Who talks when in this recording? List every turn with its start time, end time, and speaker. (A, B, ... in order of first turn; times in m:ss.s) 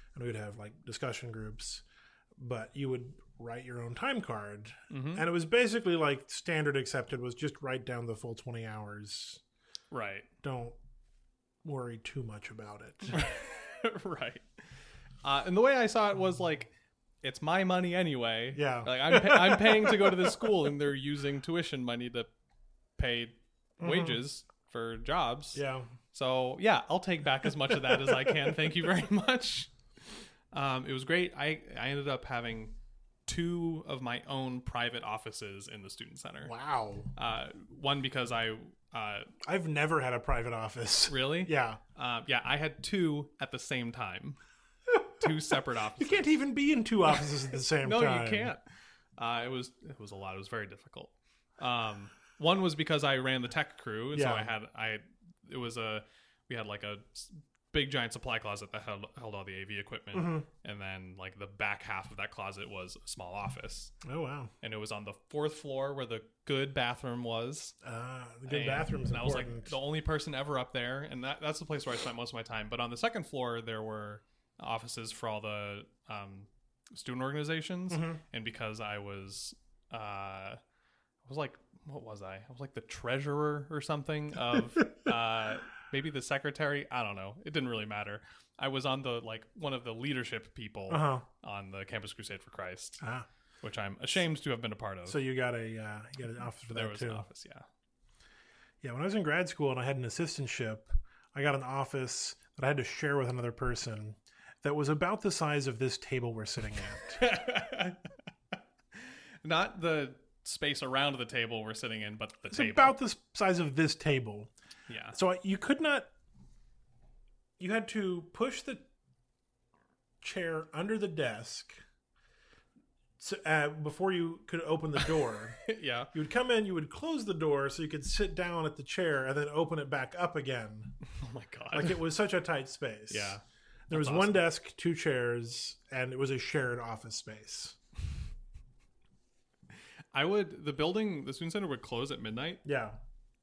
0:00.1-0:01.8 A
0:02.4-0:09.4 A
0:04.9-0:05.2 B
0:09.9-0:10.3 B
0:10.4-0:10.8 A
0:11.6-0:13.2 A
0:13.1-0:14.5 B
0:15.2-0:22.3 B
0:18.5-0:20.5 A
0:23.0-0:25.6 B
0:23.8-0:24.2 A
0:25.5-0:25.9 A
0:26.1-0:29.7 B
0:30.5-0:36.5 B
0:36.4-0:37.1 A
0:37.1-0:39.3 B
0:39.4-0:41.8 A
0:41.1-0:44.4 B
0:44.9-0:45.2 A
0:45.2-0:46.3 B
0:45.9-0:48.5 A
0:47.8-0:48.6 B
0:49.2-1:03.9 B
0:54.1-0:54.5 A
1:00.1-1:00.5 A
1:04.0-1:04.5 A
1:04.6-1:07.8 B
1:07.8-1:09.8 A
1:08.5-1:20.6 B
1:17.9-1:18.2 A
1:21.2-1:33.0 B
1:30.9-1:31.2 A
1:33.0-1:33.2 A
1:33.6-1:35.2 B
1:35.0-1:37.3 A
1:36.7-1:37.6 B
1:38.8-1:47.3 A
1:47.1-1:48.1 B
1:49.0-1:53.0 B
1:52.5-1:54.5 A
1:54.9-1:55.2 B
1:55.1-1:56.1 A
1:57.6-1:58.8 A
2:00.2-2:01.8 A
2:03.2-2:11.0 A
2:05.0-2:06.1 B
2:11.1-2:12.0 B
2:11.7-2:13.4 A
2:13.1-2:14.4 B
2:13.9-2:17.8 A
2:20.1-2:22.6 B
2:22.6-2:23.0 A